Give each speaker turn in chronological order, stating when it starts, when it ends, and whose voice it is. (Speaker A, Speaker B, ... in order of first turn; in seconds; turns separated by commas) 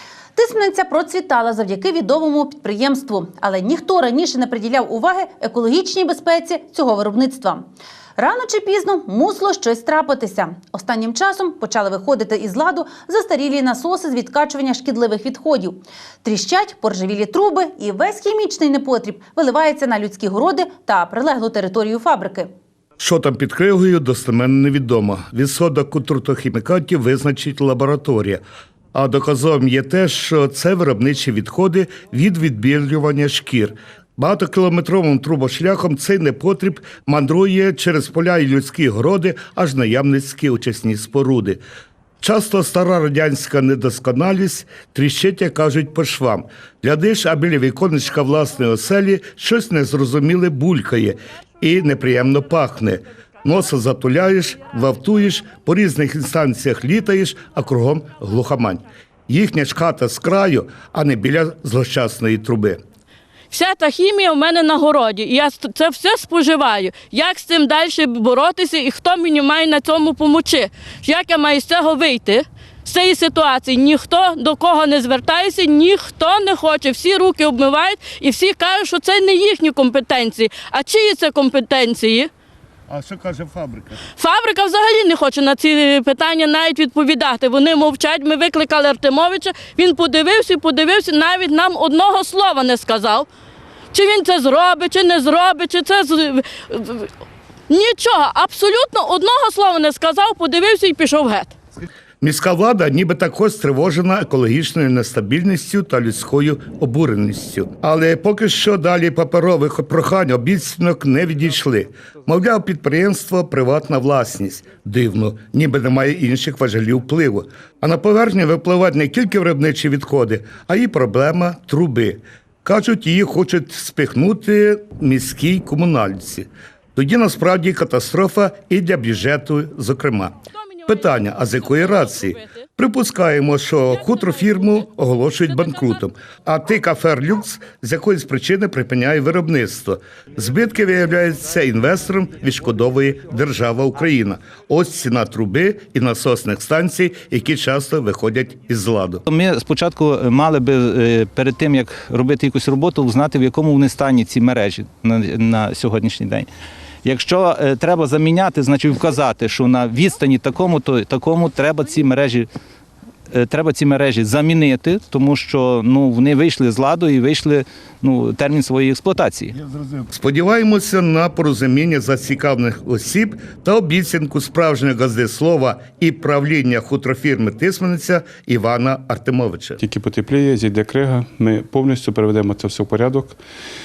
Speaker A: 0.3-7.6, Speaker A: 8.2-22.5, Speaker B: 23.0-28.4, Speaker B: 28.9-41.6, Speaker B: 42.2-62.8, Speaker C: 63.5-82.3, Speaker B: 82.9-84.0, Speaker C: 84.2-93.3, Speaker C: 93.9-97.1, Speaker C: 97.7-101.5, Speaker B: 102.2-130.3, Speaker C: 130.5-132.7, Speaker B: 130.9-149.2, Speaker C: 133.9-134.8, Speaker C: 135.5-136.0, Speaker D: 149.3-156.5, Speaker D: 157.0-162.5, Speaker D: 163.3-169.5, Speaker B: 169.6-179.8, Speaker E: 179.8-183.4